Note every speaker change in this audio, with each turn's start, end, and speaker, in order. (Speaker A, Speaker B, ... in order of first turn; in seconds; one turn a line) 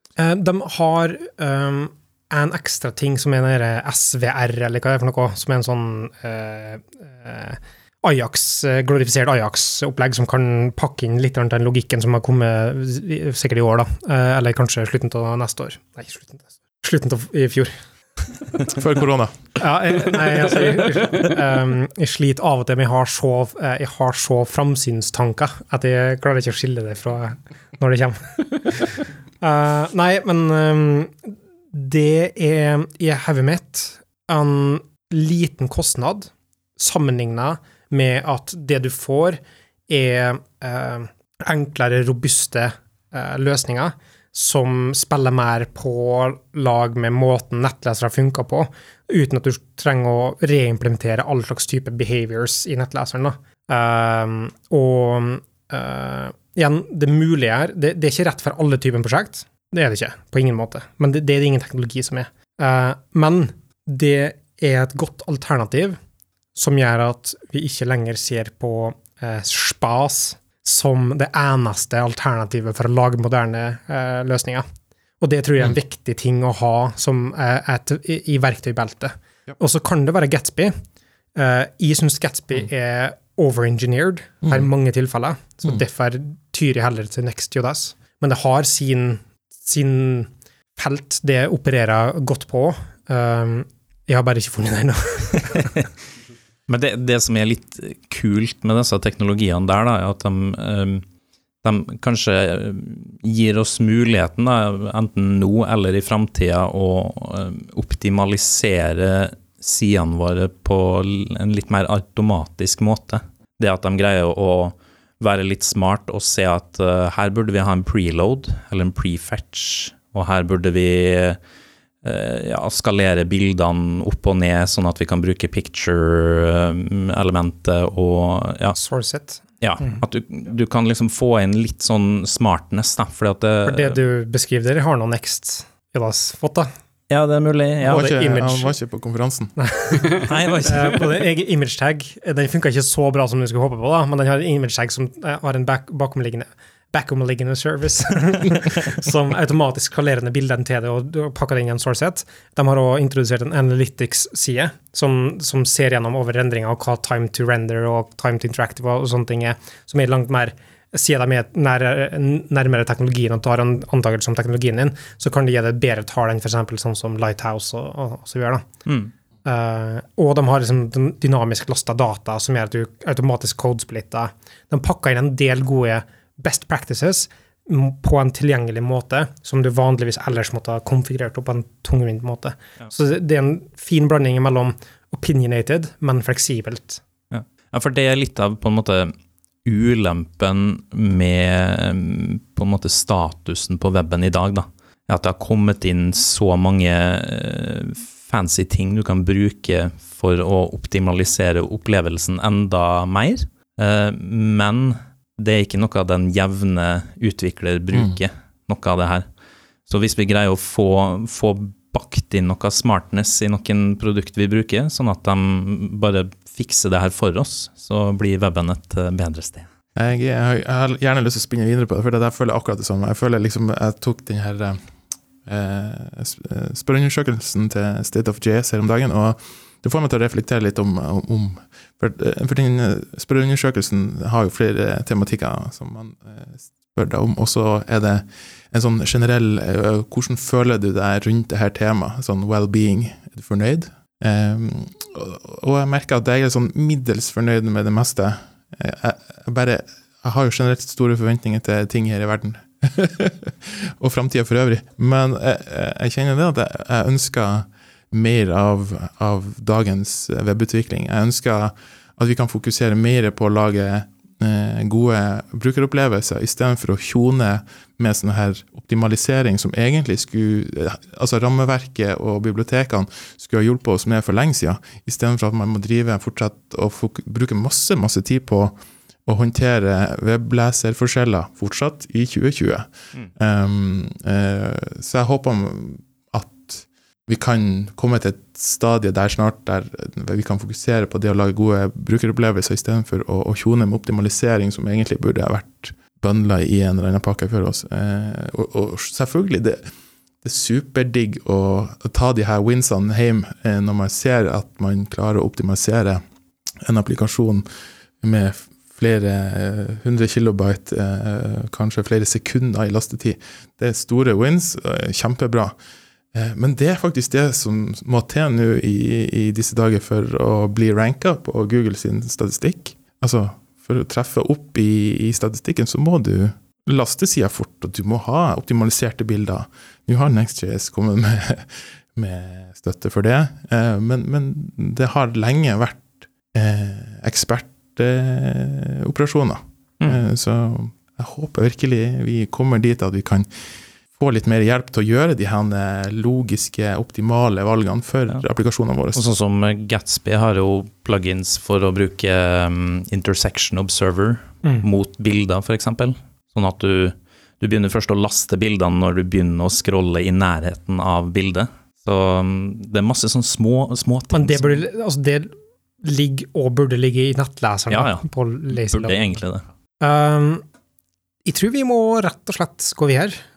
Speaker A: 0.2-17.7
Speaker B: 18.7-19.5
Speaker A: 19.6-66.0
Speaker A: 66.5-74.6
Speaker A: 75.2-80.7
Speaker A: 81.3-95.8
Speaker C: 96.7-101.0
Speaker C: 101.6-121.4
Speaker C: 122.0-128.8
Speaker A: 128.7-130.0
Speaker C: 129.6-134.0
Speaker A: 133.6-136.7
Speaker C: 137.1-138.1
Speaker A: 137.8-138.8
Speaker B: 137.8-139.5
Speaker A: 139.6-168.7
Speaker C: 140.2-141.2
Speaker C: 168.8-169.1
Speaker A: 169.4-187.0
Speaker C: 187.3-189.1
Speaker C: 189.6-209.2
Speaker C: 209.9-219.7
Speaker B: 219.9-224.8
Speaker B: 225.4-299.8
Speaker B: 300.4-306.2
Speaker B: 306.8-307.6
Speaker B: 308.2-315.7
Speaker B: 316.3-343.5
Speaker B: 344.1-349.2
Speaker C: 349.1-364.8
Speaker A: 364.3-365.5
Speaker A: 366.0-369.4
Speaker C: 367.9-369.6
Speaker A: 370.0-370.6
Speaker A: 371.4-373.4